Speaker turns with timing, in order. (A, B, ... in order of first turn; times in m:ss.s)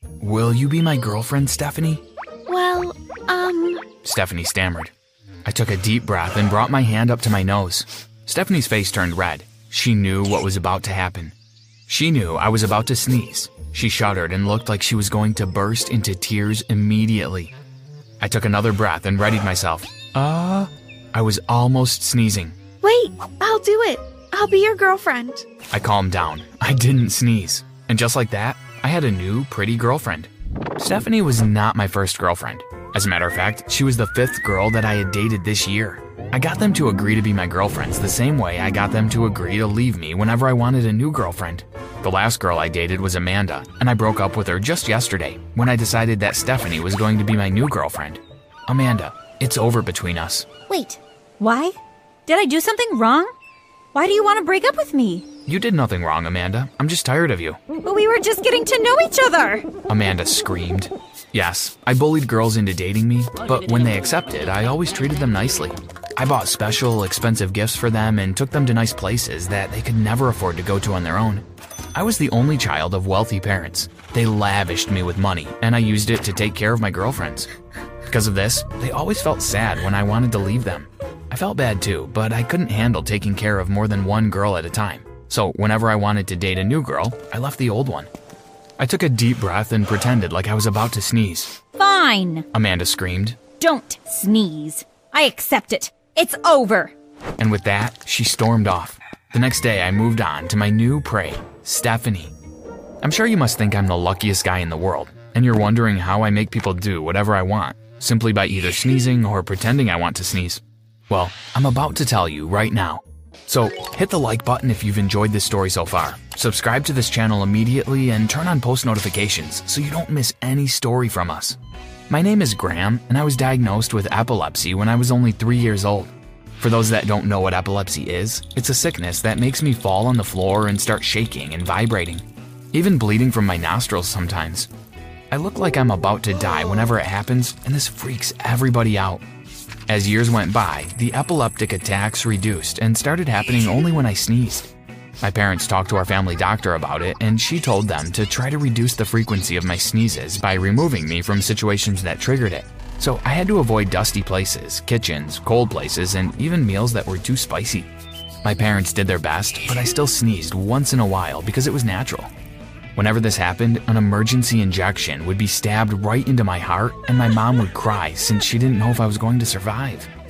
0:00.2-0:02.0 A
0:02.5-0:03.8 B
0:04.0-0:04.9 A
0:05.4-0:11.4 A
0:11.9-0:17.5 A
0:18.2-0:22.6 A
0:22.8-0:25.5 B
0:25.7-0:50.5 A
0:50.7-0:51.8 C
0:52.3-0:53.3 C
0:53.9-0:55.3 C
0:55.5-0:57.6 A
0:57.8-0:59.7 C
0:59.9-1:17.5 A
1:18.1-1:28.1 A
1:28.8-1:31.6 A
1:31.8-1:32.5 C
1:32.5-1:33.4 A
1:33.6-1:36.9 C
1:37.4-1:42.3 A
1:43.0-2:01.6 A
2:02.1-2:14.7 A
2:15.3-2:19.2 A
2:19.9-2:37.9 A
2:38.4-2:42.3 A
2:43.0-2:50.1 A